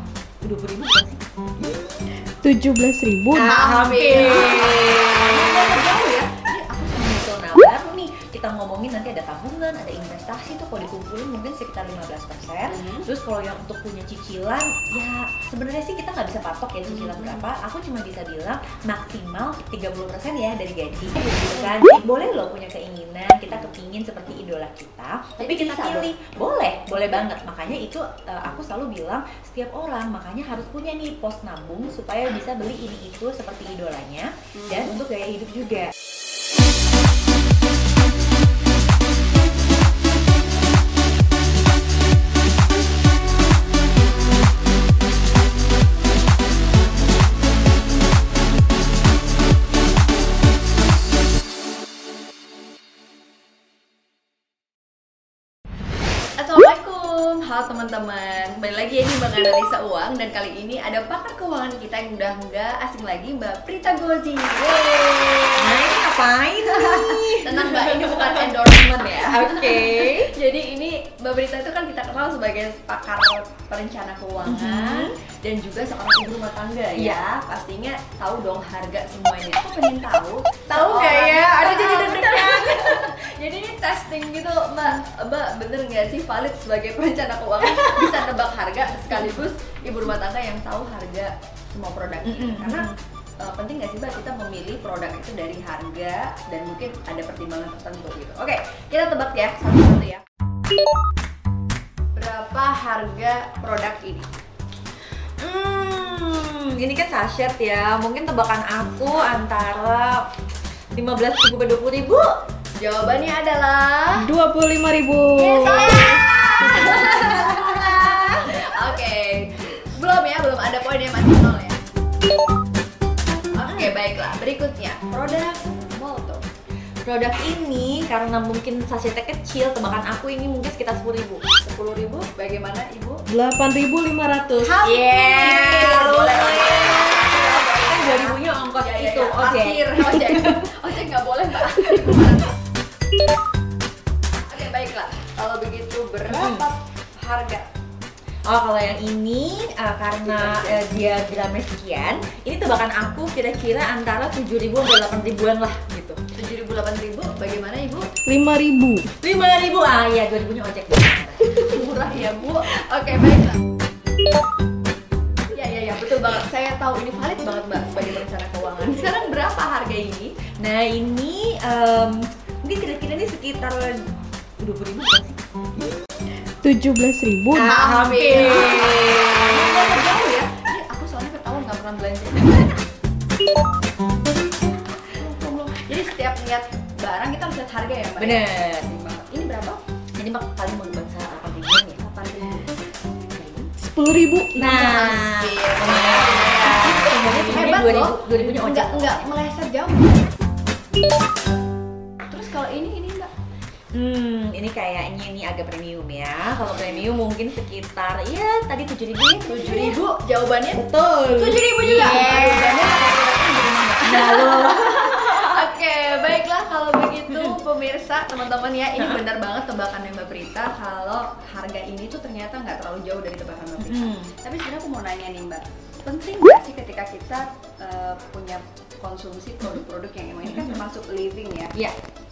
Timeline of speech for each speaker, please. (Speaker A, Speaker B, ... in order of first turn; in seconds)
Speaker A: 0.4-2.1, 3.3-35.9, 65.6-68.5, 69.1-70.3, 74.5-75.1, 77.0-77.2, 80.7-83.2, 87.6-88.2, 89.1-89.4, 92.2-92.9, 105.4-110.2, 110.9-112.3, 117.1-118.3, 123.6-123.9, 127.0-131.4, 134.8-140.7, 146.3-146.7, 148.5-156.2, 159.2-161.7, 170.6-174.0, 174.6-175.8, 177.6-179.9, 188.2-188.9, 190.2-192.0, 193.4-193.6, 194.5-199.2, 203.9-210.0, 211.7-213.2, 214.0-215.7, 217.3-217.6, 219.0-219.2, 223.8-224.3, 230.4-230.8
Speaker B: 2.4-3.5, 114.2-117.4, 133.3-134.7, 158.2-159.1, 176.6-178.1, 193.8-195.1, 210.8-211.6
Speaker C: 3.3-6.3, 12.7-13.1, 16.9-17.4, 25.4-26.1, 34.5-35.0, 56.4-65.9, 66.7-100.2, 102.1-104.3, 112.8-114.3, 115.3-121.8, 123.5-126.4, 131.6-133.2, 134.6-142.6, 144.5-147.7, 150.2-150.9, 156.3-158.1, 161.6-163.6, 165.5-170.4, 177.5-182.8, 185.1-189.8, 192.0-192.8, 194.6-200.4, 202.3-203.3, 209.5-231.7